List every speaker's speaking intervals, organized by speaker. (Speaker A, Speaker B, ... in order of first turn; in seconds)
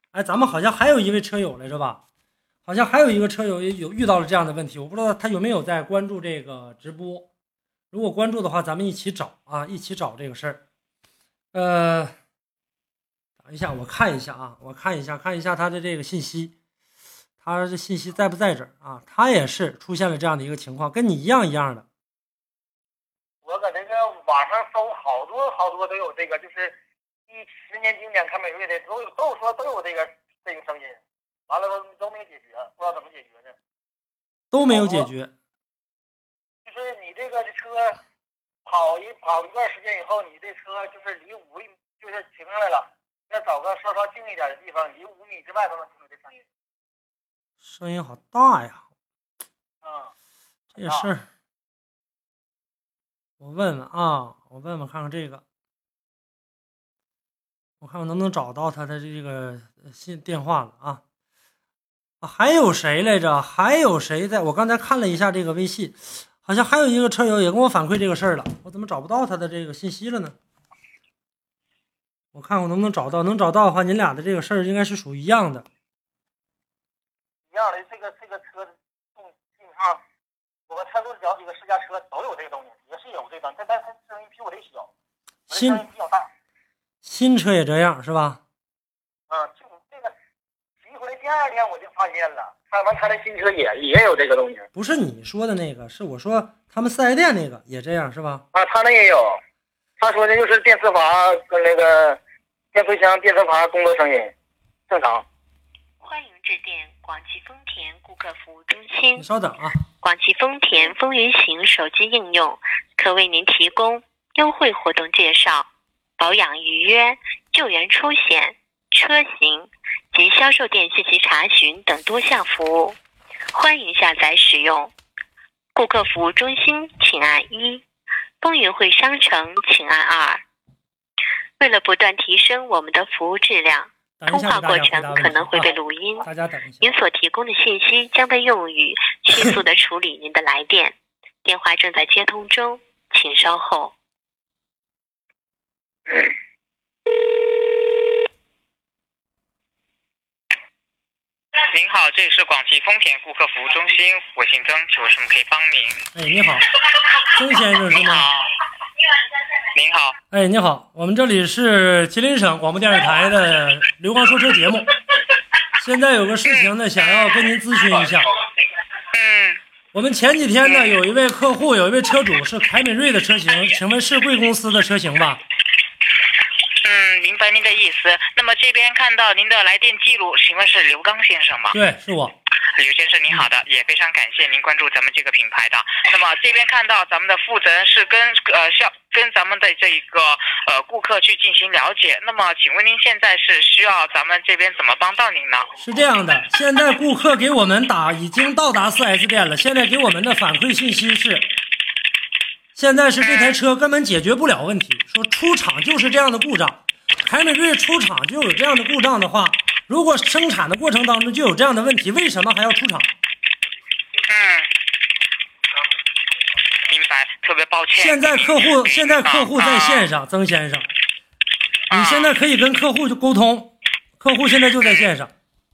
Speaker A: 0.1-2.0, 2.6-7.3, 7.9-10.6, 11.5-12.1, 13.4-16.5, 17.4-21.8, 34.5-35.3, 47.6-48.8, 50.7-51.2, 53.4-55.4, 57.8-61.0, 62.2-70.3, 72.3-75.7, 85.5-85.8, 87.0-88.4, 94.7-98.4, 109.2-109.8, 134.2-136.9, 156.1-156.7, 157.3-158.3, 160.3-164.9, 165.8-168.3, 169.9-175.4, 181.7-182.3, 195.8-201.5, 202.7-213.1, 217.9-220.9, 221.9-225.3
Speaker B: 23.4-26.7, 27.3-33.5, 34.7-35.1, 36.6-38.0, 38.6-46.4, 49.8-50.1, 77.5-80.0, 80.7-84.9, 85.5-86.3, 89.3-90.1, 90.8-94.7, 98.5-99.4, 100.0-102.2, 102.7-104.3, 104.9-105.2
Speaker C: 106.0-109.2, 110.0-123.0, 123.5-124.9, 125.7-127.8, 128.4-130.4, 131.6-136.3, 136.8-143.9
Speaker D: 151.7-156.0, 157.9-158.5, 159.7-160.1, 166.4-167.4, 169.1-169.6, 170.6-171.0, 176.8-181.8, 182.7-195.7, 203.2-203.6, 214.3-214.7, 216.9-220.1, 221.9-222.3, 224.8-225.1